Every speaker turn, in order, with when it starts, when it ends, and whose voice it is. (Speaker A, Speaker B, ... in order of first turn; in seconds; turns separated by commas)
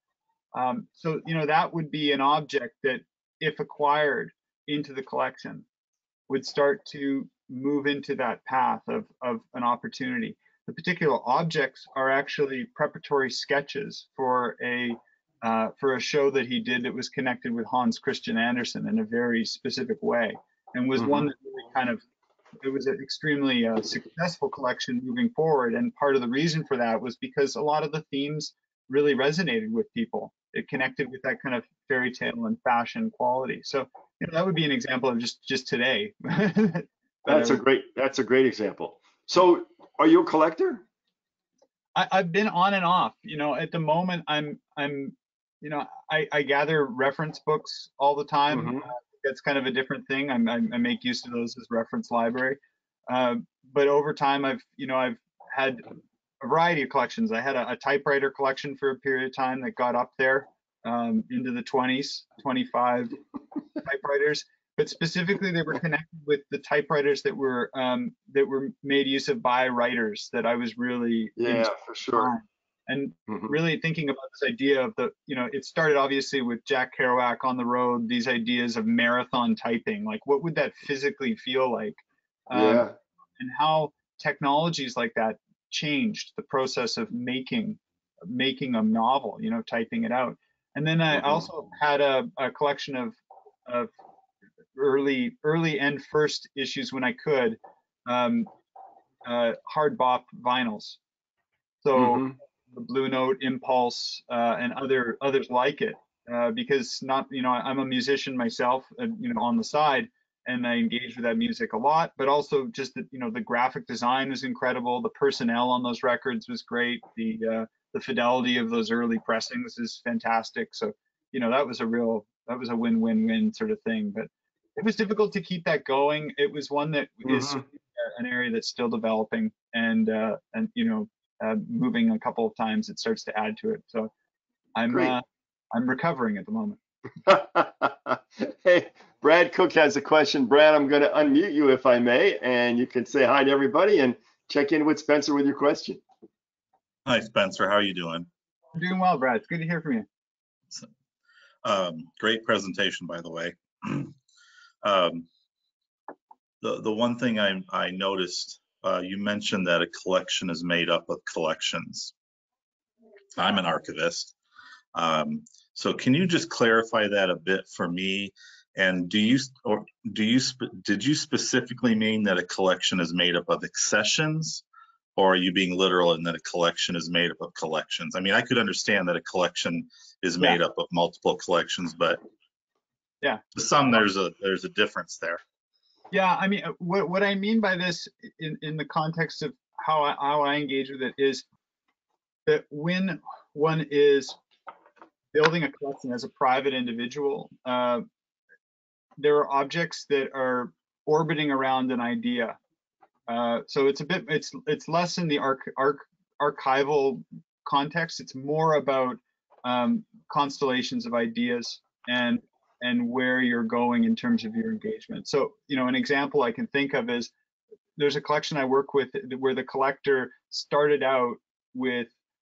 Speaker A: 0.5-5.7, Speaker A: 6.3-22.0, Speaker B: 21.0-21.3, Speaker A: 22.6-37.6, Speaker B: 37.3-40.8, Speaker A: 42.0-52.6, Speaker B: 48.5-48.9, Speaker A: 53.1-55.9, Speaker A: 56.4-63.2, Speaker A: 63.8-93.9, Speaker B: 71.4-72.3, Speaker B: 82.5-83.0, Speaker B: 91.1-91.4, Speaker A: 94.8-98.5, Speaker A: 99.2-101.0, Speaker A: 101.8-134.1, Speaker B: 102.0-102.3, Speaker B: 127.2-127.6, Speaker A: 134.8-136.8, Speaker B: 134.9-135.2, Speaker B: 137.3-146.0, Speaker C: 147.1-148.3, Speaker A: 148.8-150.1, Speaker C: 151.6-154.2, Speaker C: 154.8-155.3, Speaker C: 156.6-162.1, Speaker C: 163.4-164.3, Speaker C: 164.9-174.6, Speaker C: 175.2-182.2, Speaker C: 183.5-185.4, Speaker A: 186.1-191.5, Speaker A: 192.5-194.4, Speaker A: 195.3-198.1, Speaker A: 199.2-202.6, Speaker A: 203.3-217.3, Speaker A: 218.0-222.1